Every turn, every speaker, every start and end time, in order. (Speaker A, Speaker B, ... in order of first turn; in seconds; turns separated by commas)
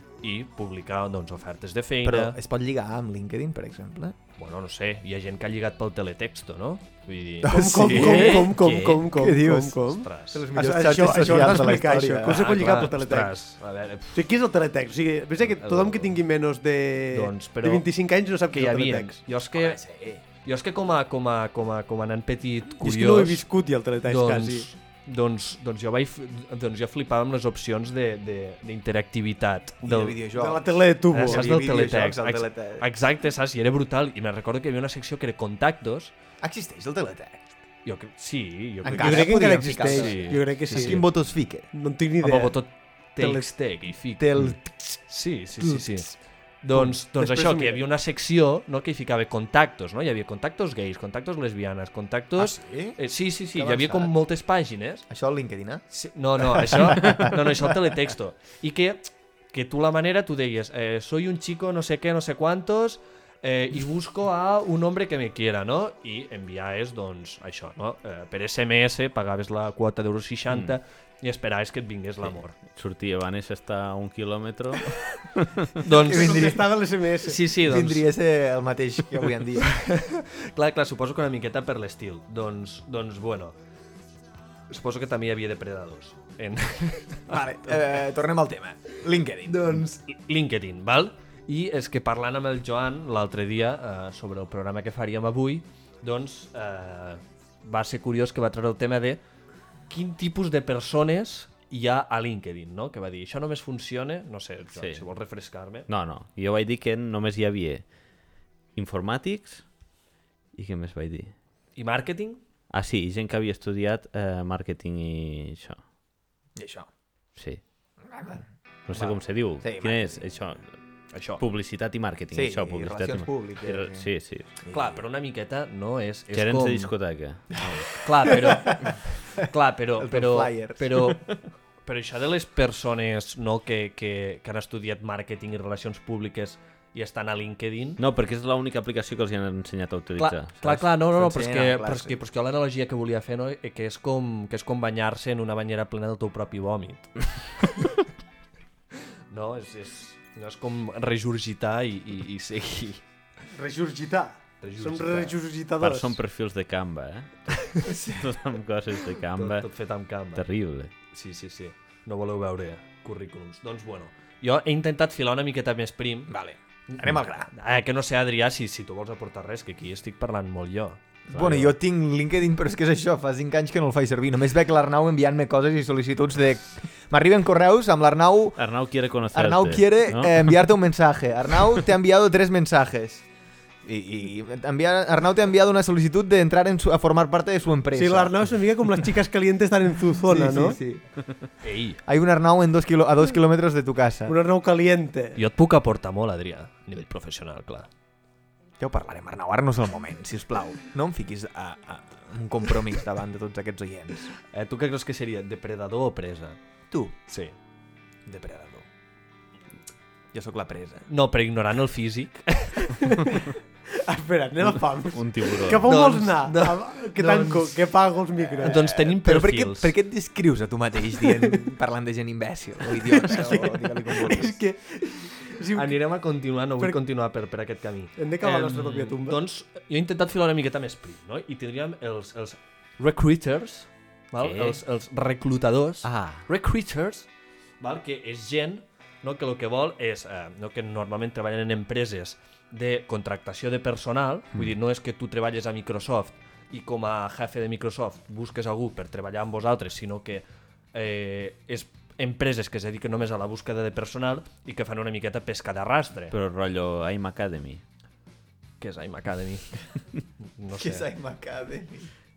Speaker A: 0.2-2.4, Speaker B: 2.0-4.2, Speaker A: 4.4-8.6, Speaker B: 7.4-12.9, Speaker C: 7.5-13.3, Speaker D: 8.6-9.1, Speaker A: 9.9-10.4, Speaker A: 12.2-14.3, Speaker C: 14.1-19.2, Speaker A: 15.4-16.2, Speaker A: 17.1-17.9, Speaker A: 18.5-19.8, Speaker B: 19.5-20.2, Speaker A: 20.4-23.4, Speaker C: 22.8-24.7, Speaker A: 24.0-30.2, Speaker B: 29.8-32.9, Speaker C: 30.3-31.5, Speaker A: 31.1-36.1, Speaker B: 36.4-37.5, Speaker A: 37.8-41.0, Speaker B: 38.8-41.7, Speaker C: 38.9-41.1, Speaker C: 41.7-42.6, Speaker A: 42.2-55.0, Speaker C: 43.2-43.5, Speaker B: 44.2-44.9, Speaker B: 45.6-45.9, Speaker C: 47.2-47.8, Speaker B: 52.4-53.0, Speaker B: 53.5-54.1, Speaker B: 55.1-55.8, Speaker A: 55.9-72.5, Speaker B: 56.4-57.6, Speaker D: 70.5-70.7, Speaker D: 72.7-75.7, Speaker A: 75.8-76.6, Speaker B: 75.9-76.8, Speaker C: 76.0-77.4, Speaker A: 77.2-78.1, Speaker B: 77.6-79.8, Speaker A: 79.8-83.5, Speaker A: 84.7-87.4, Speaker B: 87.3-89.9, Speaker A: 89.5-99.2, Speaker A: 99.9-105.9, Speaker D: 104.7-105.0, Speaker D: 105.9-107.8, Speaker D: 108.7-109.6, Speaker D: 110.5-111.3, Speaker A: 111.8-112.4, Speaker D: 112.7-115.8, Speaker B: 116.5-116.9, Speaker B: 118.0-118.4, Speaker D: 118.9-120.7, Speaker B: 119.6-120.2, Speaker A: 121.1-121.4, Speaker D: 121.4-124.5, Speaker B: 122.3-124.1, Speaker B: 124.6-125.0, Speaker A: 124.7-126.9, Speaker D: 126.3-127.9, Speaker B: 127.6-128.9, Speaker A: 128.0-131.3, Speaker B: 130.0-131.2, Speaker A: 131.8-138.0, Speaker D: 138.0-140.8, Speaker A: 140.2-147.1, Speaker B: 141.1-142.2, Speaker A: 149.3-153.0, Speaker C: 153.5-156.2, Speaker A: 154.6-155.4, Speaker D: 155.8-159.7, Speaker B: 157.8-158.4, Speaker A: 159.3-160.4, Speaker D: 160.3-160.9, Speaker A: 161.1-166.3, Speaker B: 166.3-167.5, Speaker A: 166.9-171.0, Speaker B: 171.3-178.6, Speaker D: 171.3-171.7, Speaker D: 178.6-180.6, Speaker B: 179.3-183.2, Speaker B: 183.8-188.4, Speaker C: 187.9-190.8, Speaker B: 190.2-191.1, Speaker A: 191.6-192.0, Speaker B: 192.0-194.3, Speaker C: 194.3-195.4, Speaker A: 195.3-197.9, Speaker B: 198.8-204.3, Speaker A: 204.5-206.6, Speaker B: 206.9-207.2, Speaker A: 207.3-207.5, Speaker B: 208.2-208.8, Speaker B: 210.3-211.1, Speaker A: 211.1-213.1, Speaker C: 213.2-218.8, Speaker D: 215.1-215.9, Speaker A: 215.8-217.8, Speaker B: 218.4-224.6, Speaker A: 218.6-219.9, Speaker C: 223.0-226.0, Speaker A: 225.7-237.3, Speaker C: 228.2-229.4, Speaker D: 234.4-234.8, Speaker D: 236.0-236.4, Speaker A: 237.8-256.3, Speaker D: 256.3-257.8, Speaker A: 258.8-259.6, Speaker A: 260.6-261.1, Speaker B: 260.7-262.1